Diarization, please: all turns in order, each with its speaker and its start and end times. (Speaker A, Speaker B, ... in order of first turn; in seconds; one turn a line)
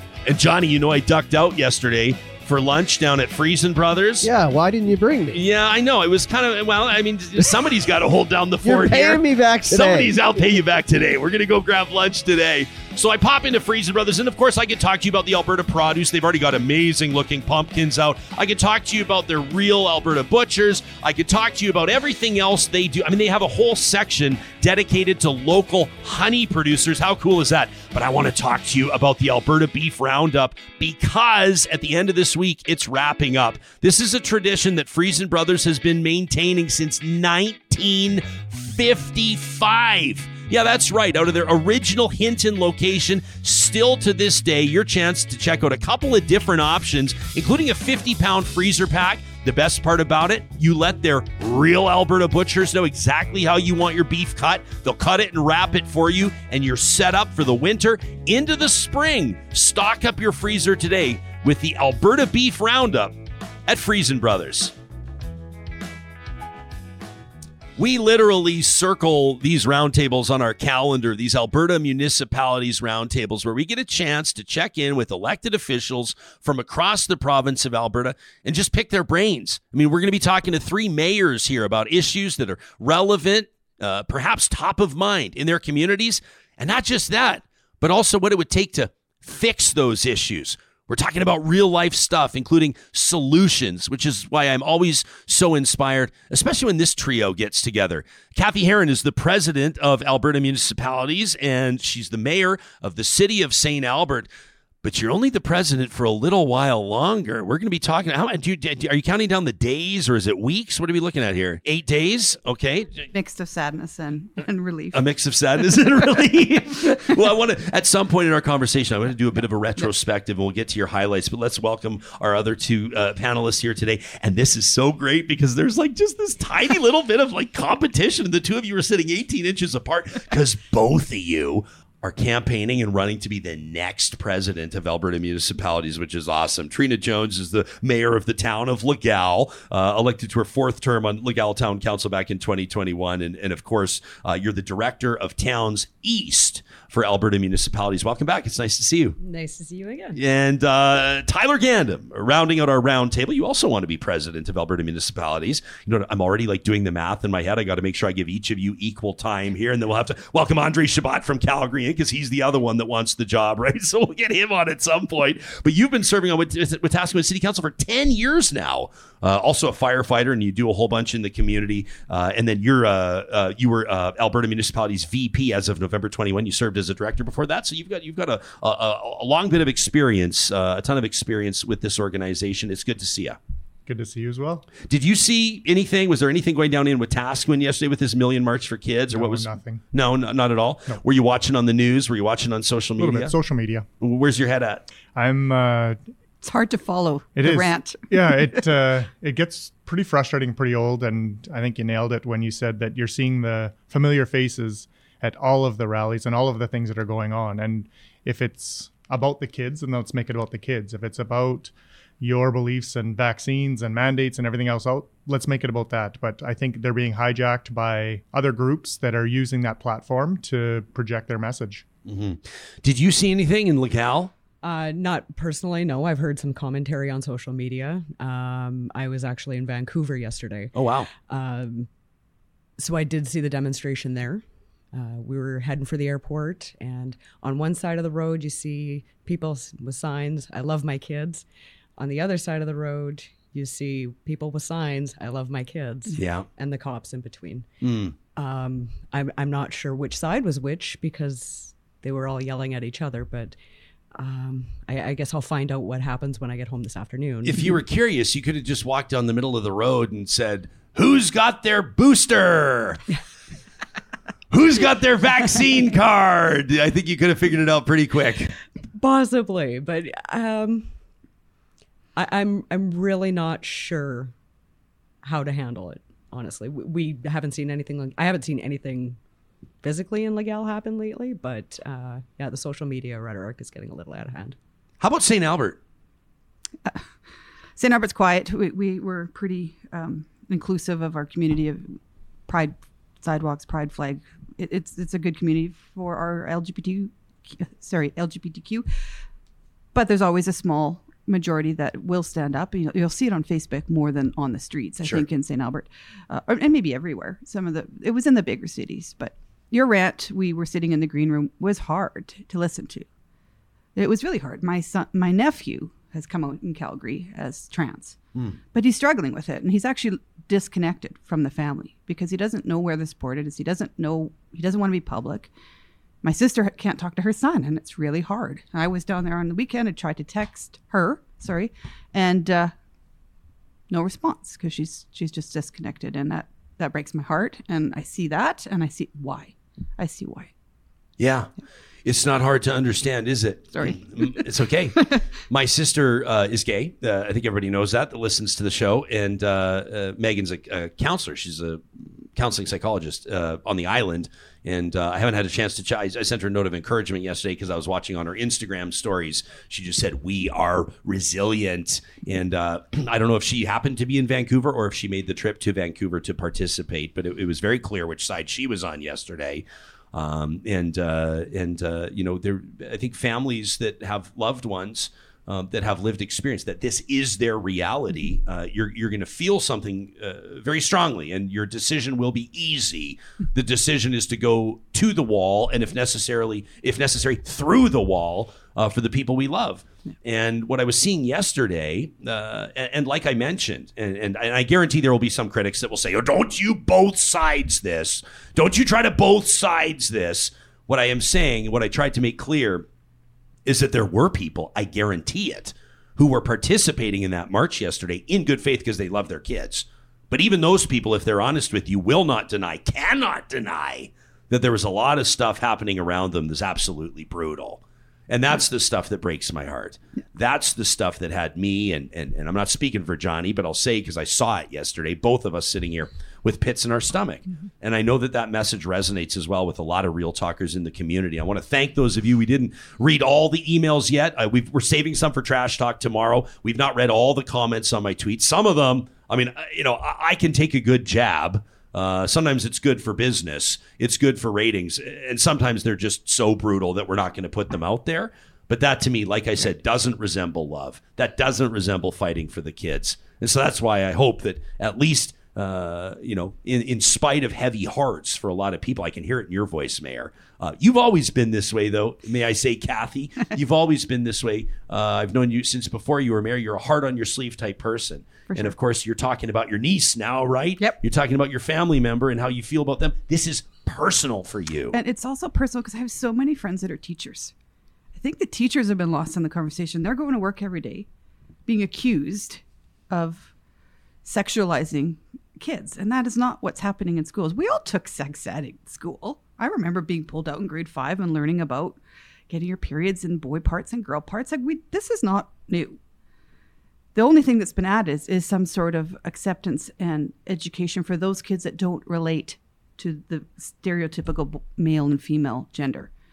Speaker A: 0.3-4.3
Speaker B: 4.2-5.4
Speaker A: 5.3-64.7
Speaker B: 8.6-10.2
Speaker A: 67.8-104.3
Speaker A: 104.8-113.1
Speaker C: 113.1-115.0
Speaker A: 114.9-149.2
Speaker D: 149.2-150.2
Speaker A: 150.2-183.4
Speaker E: 183.9-184.7
Speaker A: 184.9-193.3
Speaker E: 189.1-189.8
Speaker E: 193.0-193.9
Speaker A: 194.0-194.8
Speaker E: 195.1-196.0
Speaker C: 196.4-198.5
Speaker E: 197.4-221.9
Speaker A: 222.1-224.3
Speaker D: 224.6-231.9
Speaker A: 230.7-231.1
Speaker D: 232.8-241.4
Speaker D: 242.0-247.7
Speaker A: 246.1-246.5
Speaker A: 247.8-248.2
Speaker D: 248.4-253.6
Speaker D: 254.2-257.8
Speaker A: 257.4-263.0
Speaker A: 264.5-268.5
Speaker D: 269.0-270.9
Speaker D: 272.2-274.3
Speaker D: 275.2-279.2
Speaker D: 279.8-284.6
Speaker A: 285.0-285.8
Speaker C: 287.8-298.9
Speaker C: 299.9-313.1
Speaker C: 314.0-318.2
Speaker C: 318.7-325.5
Speaker C: 326.2-332.7
Speaker C: 333.9-340.5
Speaker A: 341.2-341.5
Speaker A: 342.1-402.9
Speaker C: 343.8-344.1
Speaker A: 403.7-475.0
Speaker C: 474.9-477.5
Speaker C: 478.1-481.1
Speaker C: 481.7-483.5
Speaker C: 484.2-496.0
Speaker C: 497.1-506.1